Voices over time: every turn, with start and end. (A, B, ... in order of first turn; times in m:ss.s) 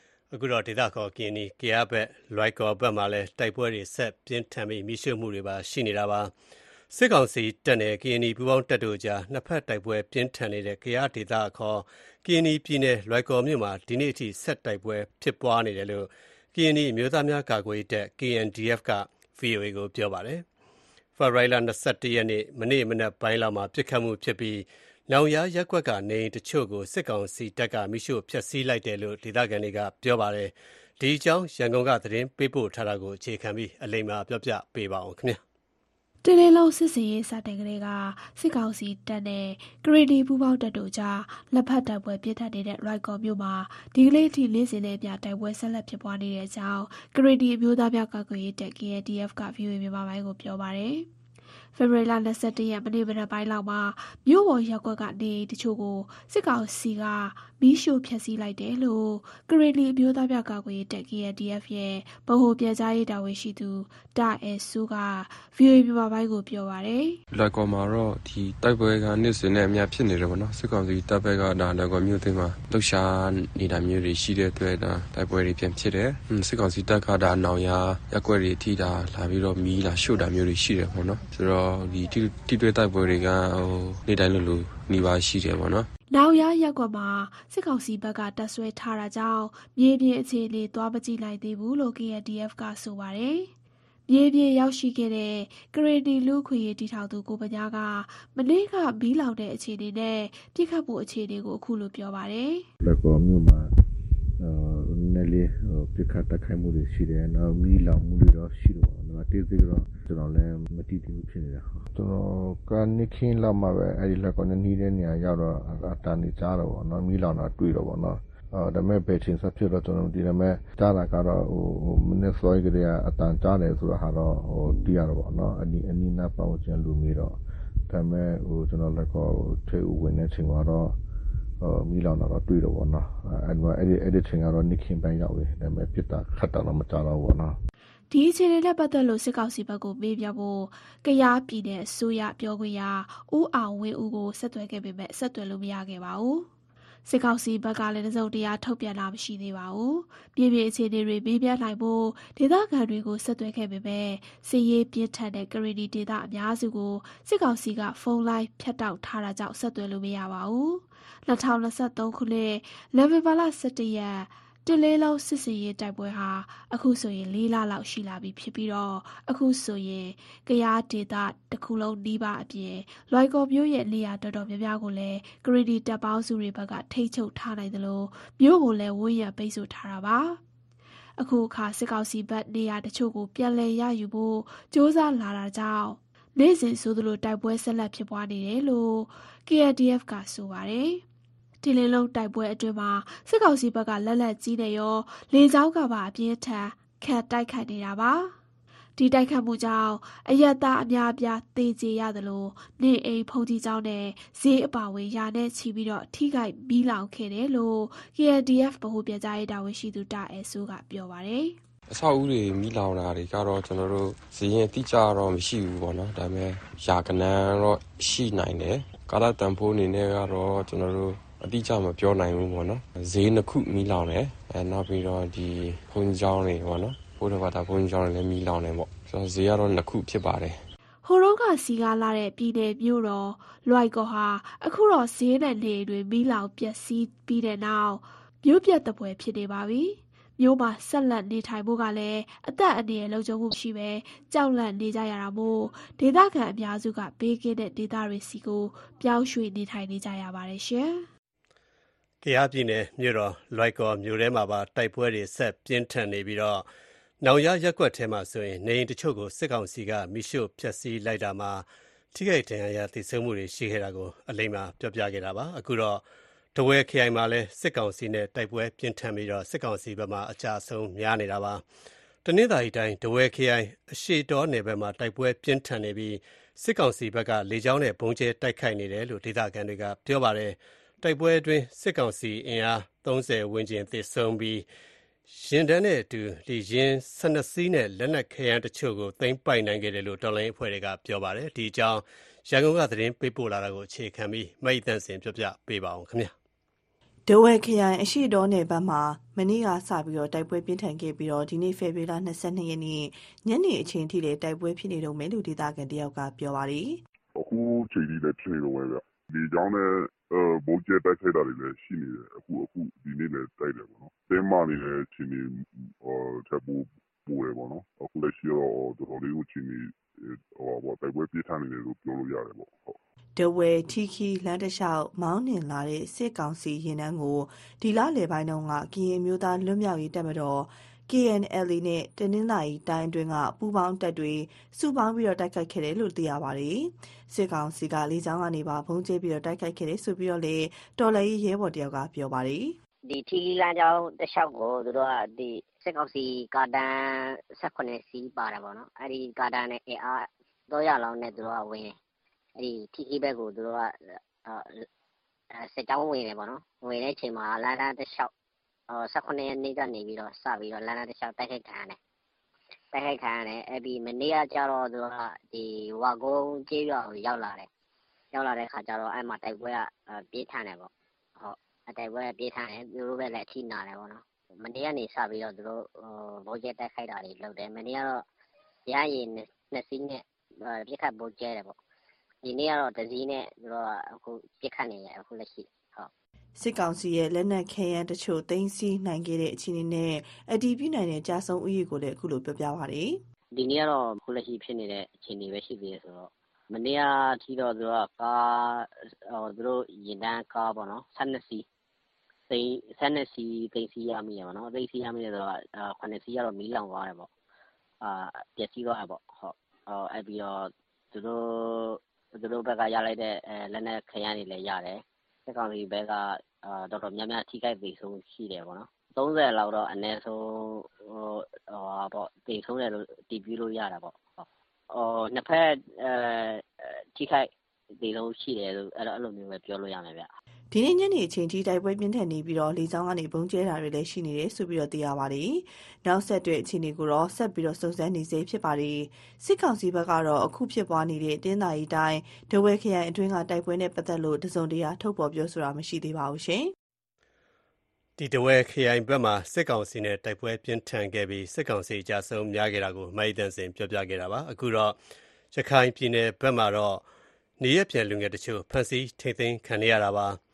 0:00.3-0:06.3 A
0:06.9-0:20.4 A
0:21.2-0:35.4 A
0:36.2-0:51.1 B
0:51.7-1:07.2 B
1:07.3-1:25.9 C
1:26.1-1:33.5 B
1:34.1-1:42.6 B
1:42.8-1:43.7 D
1:44.4-2:07.4 D
2:07.9-2:11.0 D
2:11.6-2:17.6 D
2:18.1-2:26.5 B
2:27.0-3:00.4 B
3:01.2-3:11.0 B
3:11.6-3:18.4 B
3:19.0-3:31.6 B
3:31.9-3:50.6 C
3:51.0-4:11.1 B
4:12.2-4:16.6 A
4:17.2-4:26.0 A
4:26.6-4:31.6 A
4:32.2-4:44.6 A
4:45.3-4:56.3 A
4:57.3-5:07.0 E
5:07.4-5:23.0 F
5:23.4-5:42.8 E
5:43.0-5:51.9 G
5:52.6-5:54.8 G
5:55.6-5:58.3 G
5:58.9-6:02.0 G
6:02.9-6:07.7 G
6:08.3-6:18.2 G
6:18.9-6:21.8 G
6:22.4-6:26.1 G
6:26.6-6:33.2 E
6:33.5-6:41.6 G
6:42.5-6:47.3 G
6:48.0-7:10.3 G
7:10.7-7:26.7 E
7:28.2-7:35.0 A
7:35.5-7:37.0 A
7:37.6-7:40.4 A